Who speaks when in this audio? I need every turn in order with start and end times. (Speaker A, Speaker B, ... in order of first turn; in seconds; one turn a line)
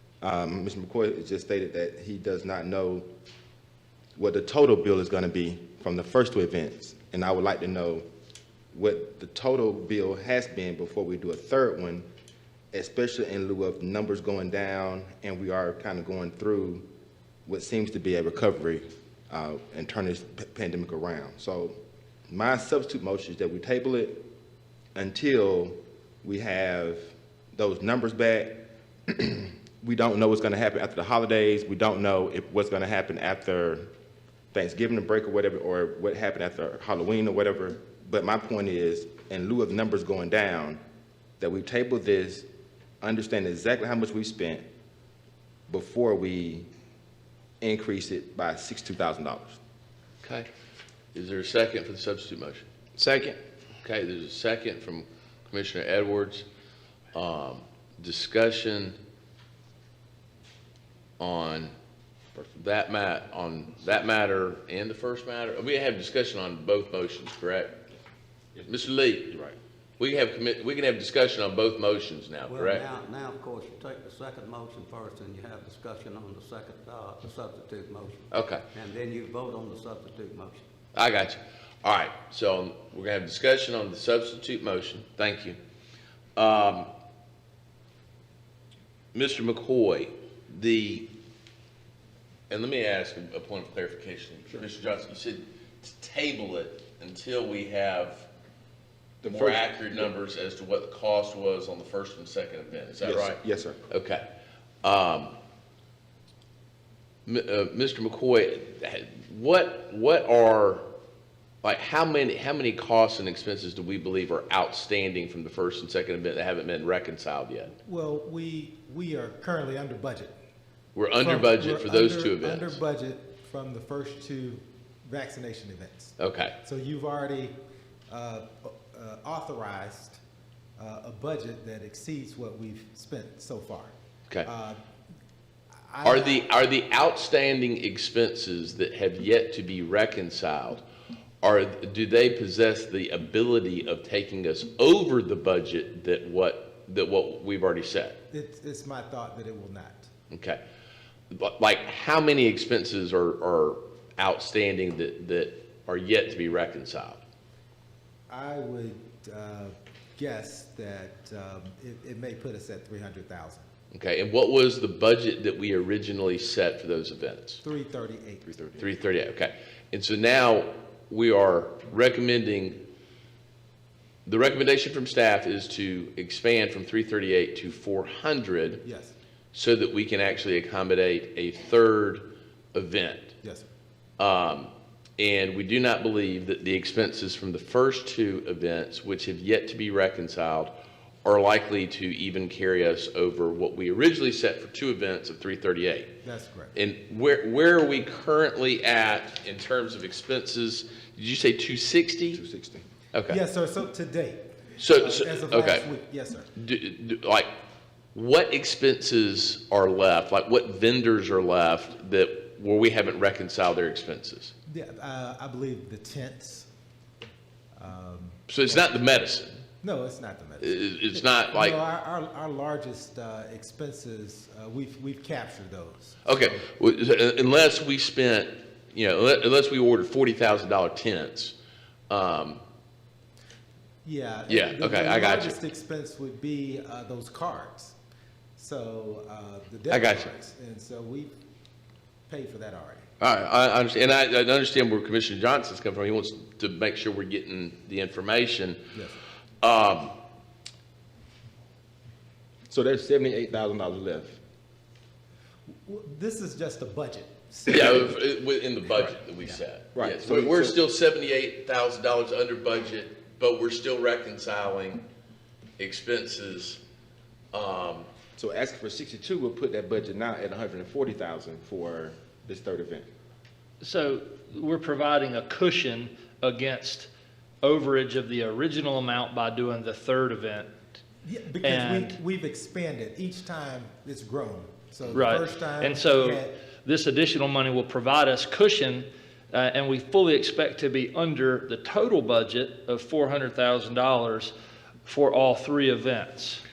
Speaker A: 0.2-3.1
Speaker A: 4.2-8.1
Speaker A: 8.7-12.1
Speaker A: 12.7-16.9
Speaker A: 17.5-21.8
Speaker A: 22.3-24.2
Speaker A: 24.9-33.9
Speaker A: 34.5-40.8
Speaker A: 41.4-42.5
Speaker A: 43.0-44.6
Speaker A: 45.7-46.7
Speaker A: 47.6-49.6
Speaker B: 50.2-50.5
Speaker B: 51.1-52.6
Speaker A: 53.0-53.4
Speaker B: 53.8-56.5
Speaker B: 57.1-59.0
Speaker B: 61.2-61.7
Speaker B: 62.5-67.8
Speaker B: 68.7-69.4
Speaker B: 70.0-72.9
Speaker C: 72.5-80.7
Speaker B: 78.3-78.7
Speaker B: 80.9-85.6
Speaker B: 86.4-86.9
Speaker B: 89.1-91.1
Speaker B: 92.5-98.3
Speaker A: 99.2-99.6
Speaker B: 99.2-104.3
Speaker A: 103.0-103.8
Speaker B: 104.8-105.3
Speaker B: 107.3-110.9
Speaker B: 111.6-117.7
Speaker D: 117.8-120.3
Speaker B: 121.0-122.8
Speaker D: 121.2-127.6
Speaker B: 126.2-126.6
Speaker D: 128.1-130.2
Speaker D: 130.8-133.9
Speaker D: 134.4-134.8
Speaker D: 135.9-136.5
Speaker B: 136.0-140.8
Speaker B: 141.4-148.2
Speaker D: 148.3-150.1
Speaker B: 150.3-150.6
Speaker B: 151.3-157.2
Speaker D: 158.3-163.7
Speaker B: 163.9-167.6
Speaker D: 167.6-168.5
Speaker A: 168.5-168.8
Speaker B: 168.8-172.9
Speaker B: 174.3-178.8
Speaker D: 178.8-179.2
Speaker B: 179.5-183.3
Speaker D: 183.4-183.7
Speaker B: 184.2-196.2
Speaker D: 196.2-196.7
Speaker B: 196.7-202.4
Speaker A: 202.3-202.9
Speaker B: 203.1-203.4
Speaker D: 203.3-206.5
Speaker B: 204.8-205.9
Speaker B: 206.6-207.5
Speaker B: 208.2-214.5
Speaker D: 214.7-216.7
Speaker D: 217.8-218.4
Speaker B: 218.5-219.6
Speaker D: 219.8-226.7
Speaker B: 220.6-221.8
Speaker B: 226.2-231.6
Speaker B: 232.1-232.6
Speaker D: 234.0-238.0
Speaker B: 234.5-235.6
Speaker D: 238.6-241.3
Speaker B: 239.9-240.3
Speaker D: 242.3-243.1
Speaker B: 243.2-248.8
Speaker B: 249.6-250.2
Speaker A: 252.7-254.4
Speaker D: 255.9-258.2
Speaker B: 257.7-265.1
Speaker A: 259.9-260.8
Speaker B: 265.8-266.8
Speaker B: 267.5-268.1
Speaker A: 268.4-273.1
Speaker E: 273.8-277.1
Speaker E: 277.6-280.7
Speaker D: 281.2-286.5
Speaker E: 281.6-282.2
Speaker E: 285.1-294.6
Speaker E: 295.1-296.6